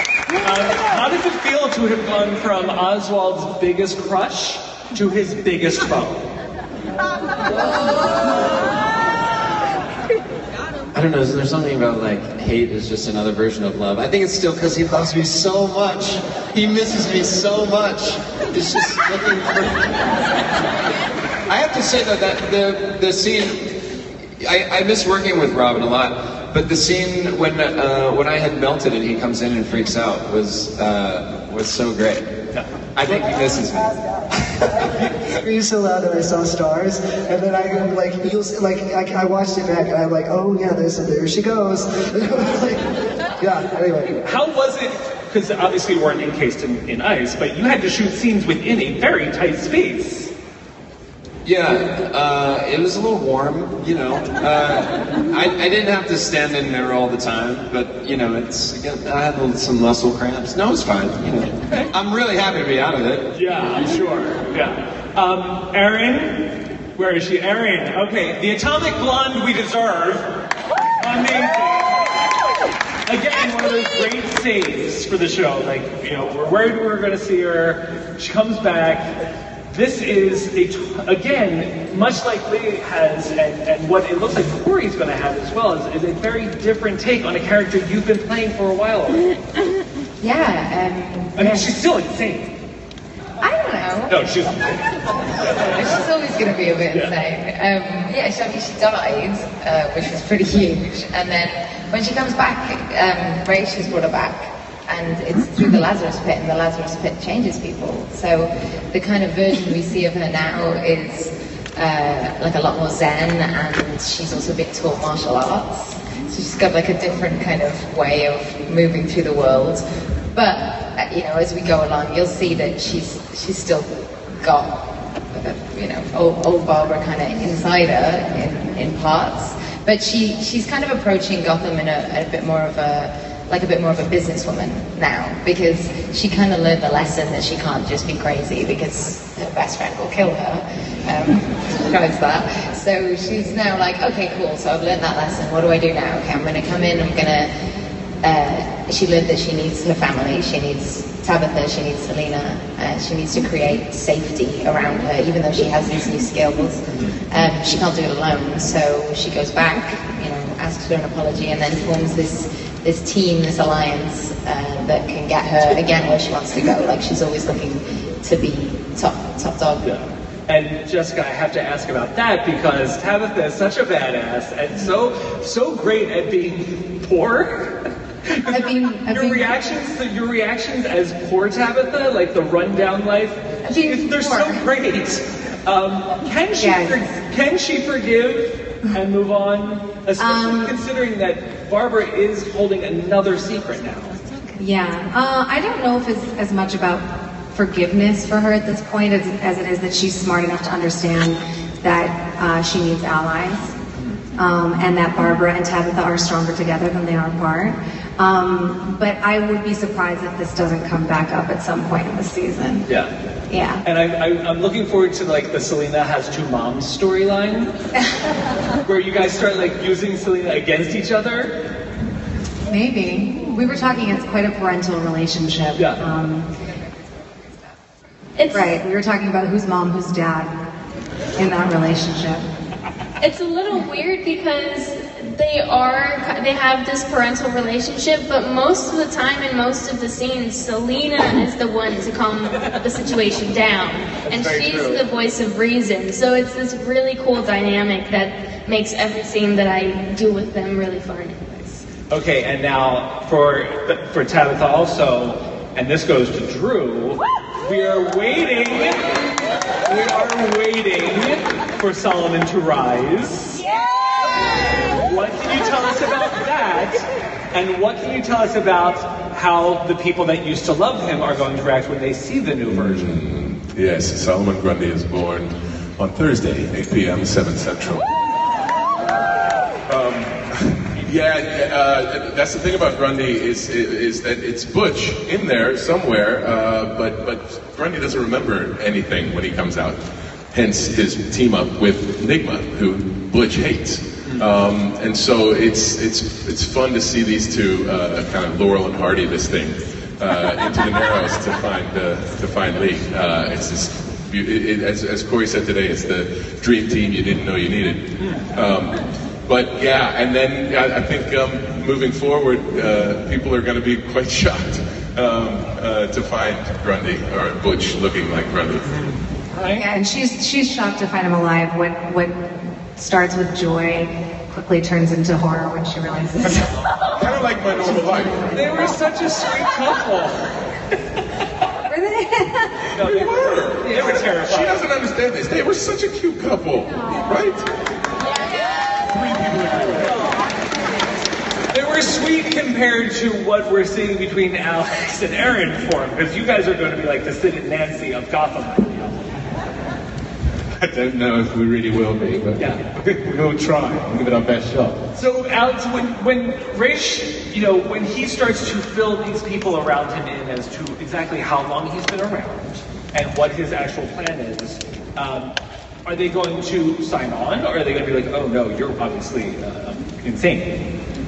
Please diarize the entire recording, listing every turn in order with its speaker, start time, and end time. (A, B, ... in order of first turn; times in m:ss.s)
0:00.4-0:06.2 A
0:10.9-0:19.9 B
0:21.5-0:23.7 B
0:24.4-0:32.3 B
0:33.0-0:33.9 B
0:35.4-0:42.9 C
0:43.4-0:44.2 C
0:44.2-0:50.3 A
0:51.4-1:03.3 B
1:03.3-1:10.3 A
1:11.0-1:12.1 A
1:13.1-1:19.1 A
1:19.7-1:29.3 A
1:30.2-1:31.6 D
1:31.4-1:32.5 A
1:33.4-1:34.2 D
1:34.1-1:35.6 A
1:35.6-2:27.5 D
2:28.2-2:49.9 D
2:49.8-2:57.8 A
2:58.3-3:14.1 A
2:58.5-2:59.5 E
3:03.6-3:04.6 E
3:06.6-3:07.0 E
3:10.2-3:10.7 E
3:14.6-3:23.8 E
3:24.4-3:32.9 E
3:32.9-3:33.1 A
3:33.5-3:33.8 E
3:33.8-3:37.7 A
3:38.8-3:41.6 A
3:42.7-3:46.5 E
3:45.8-3:46.0 A
3:48.4-3:48.8 F
3:48.5-3:50.5 E
3:51.4-3:52.4 E
3:53.2-4:11.8 F
4:04.3-4:04.8 A
4:12.1-4:19.2 A
4:19.8-4:23.6 A
4:24.9-4:33.1 A
4:32.7-4:38.1 G
4:39.9-5:19.1 G
5:08.2-5:08.5 A
5:18.9-5:19.8 A
5:19.8-5:26.7 E
5:27.2-5:28.5 G
5:27.9-5:30.4 A
5:31.9-5:32.6 E
5:33.0-5:34.7 A
5:33.1-5:37.7 G
5:39.0-5:40.2 G
5:41.7-5:49.2 A
5:50.8-5:55.0 H
5:52.6-5:52.8 A
5:55.2-6:05.6 A
6:06.1-6:10.7 A